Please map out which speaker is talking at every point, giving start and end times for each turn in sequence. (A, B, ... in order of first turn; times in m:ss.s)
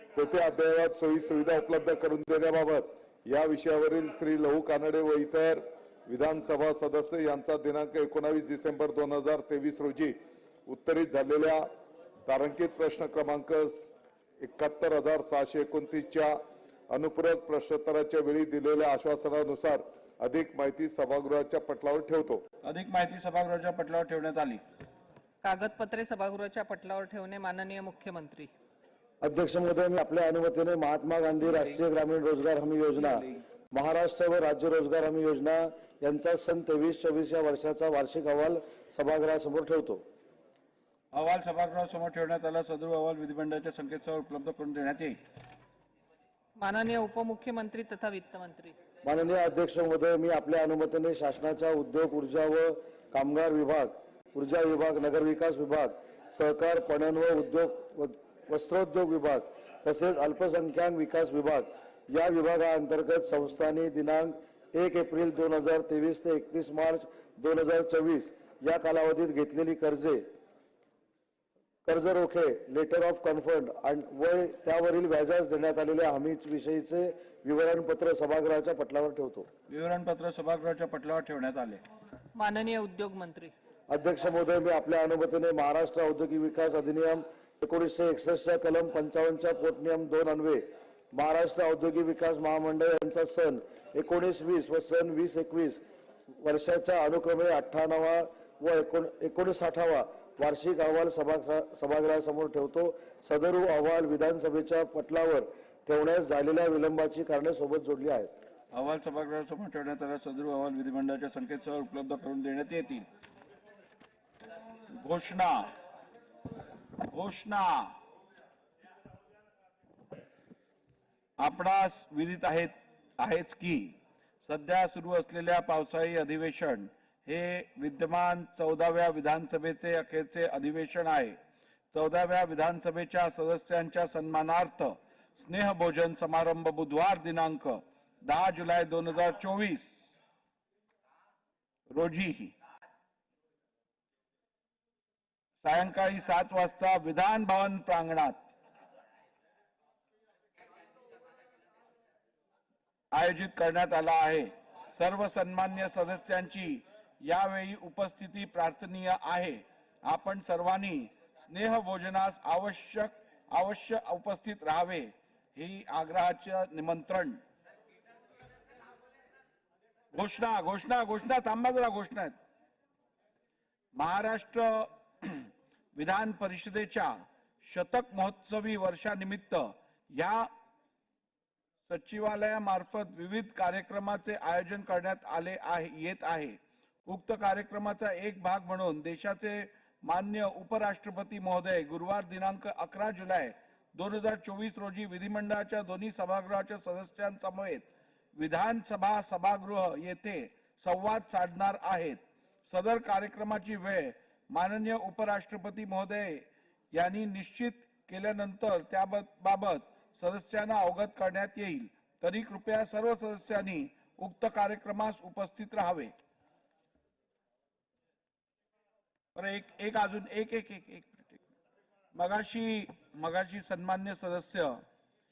0:00.2-0:10.2 A
0:10.7-0:11.7 A
0:12.3-0:16.4 A
0:16.9-0:22.4 A
0:22.6-0:24.6 B
0:25.4-0:28.5 C
0:29.2-0:40.0 D
0:31.5-0:31.8 B
0:33.0-0:33.4 B
0:41.1-0:45.2 B
0:46.6-0:48.7 C
0:49.0-1:10.2 D
1:11.8-1:19.5 D
1:19.7-1:21.8 B
1:22.4-1:23.5 C
1:23.9-1:35.8 D
1:36.4-1:48.3 D
1:48.7-1:53.1 B
1:55.0-1:55.7 B
1:57.1-1:57.9 B
2:01.4-2:11.4 B
2:11.9-2:20.1 B
2:21.9-2:22.5 B
2:25.6-2:28.4 B
2:33.2-2:47.4 B
2:50.1-2:52.4 B
2:54.0-2:57.1 B
2:57.7-3:00.5 B
3:01.9-3:36.1 B
3:39.4-3:41.4 B
3:42.2-3:44.8 B